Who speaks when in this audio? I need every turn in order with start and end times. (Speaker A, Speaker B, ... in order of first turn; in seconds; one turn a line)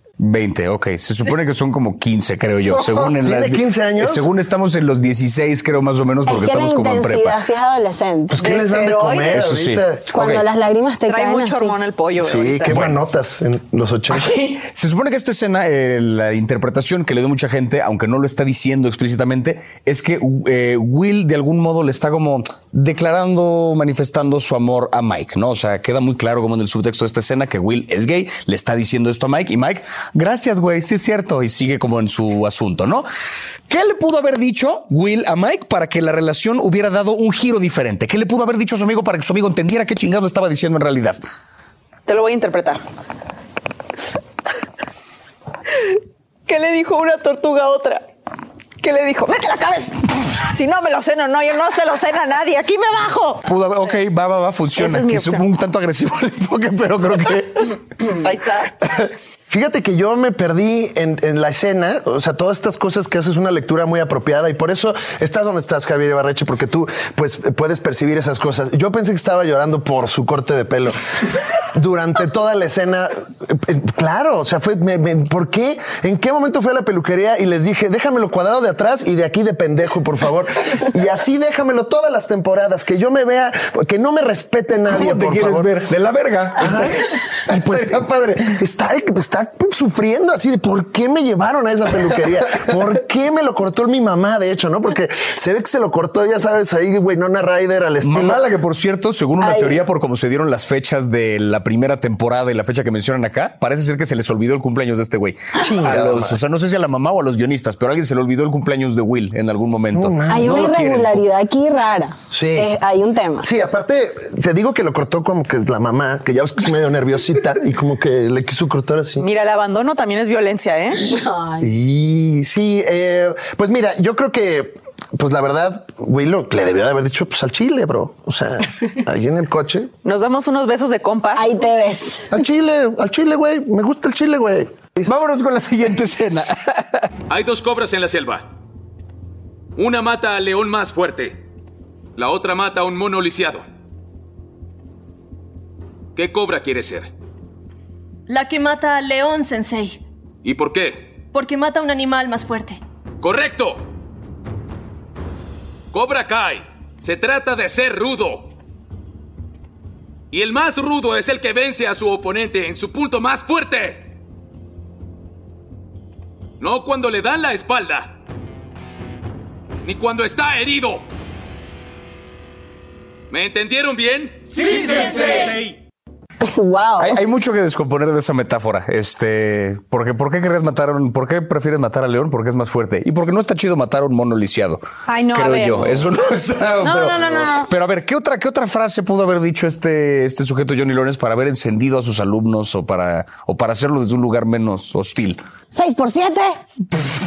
Speaker A: 0.2-7.4
Speaker B: 2.9-4.3
Speaker C: 6.3-8.4
Speaker B: 8.3-10.1
Speaker D: 8.4-9.4
Speaker A: 9.3-10.4
Speaker C: 10.1-11.8
Speaker D: 11.1-12.8
Speaker B: 12.2-14.3
Speaker A: 12.7-13.0
Speaker A: 14.1-33.1
Speaker A: 33.7-41.2
Speaker D: 42.1-42.8
Speaker D: 45.7-48.0
Speaker D: 48.8-53.4
Speaker A: 53.4-57.8
Speaker D: 54.7-55.4
Speaker D: 58.1-58.9
Speaker B: 59.5-71.0
Speaker B: 71.6-85.7
Speaker A: 84.9-88.0
Speaker B: 86.5-98.4
Speaker A: 98.0-111.2
Speaker B: 105.5-106.4
Speaker B: 109.9-110.8
Speaker C: 110.3-113.5
Speaker B: 112.3-112.7
Speaker B: 113.4-119.3
Speaker D: 119.2-121.0
Speaker C: 121.0-121.7
Speaker B: 121.6-129.9
Speaker D: 130.0-131.6
Speaker C: 131.3-132.3
Speaker B: 132.3-135.1
Speaker A: 135.0-137.1
Speaker E: 137.3-138.5
Speaker E: 139.8-141.4
Speaker E: 142.2-143.7
Speaker E: 146.1-147.1
Speaker F: 148.3-150.0
Speaker E: 150.4-151.2
Speaker F: 151.3-152.8
Speaker E: 153.2-153.8
Speaker E: 155.9-158.5
Speaker E: 160.3-164.1
Speaker E: 166.6-168.2
Speaker E: 169.8-171.0
Speaker E: 173.3-175.8
Speaker C: 176.4-177.2
Speaker A: 177.0-195.4
Speaker D: 185.1-186.0
Speaker D: 186.8-187.7
Speaker C: 195.7-196.6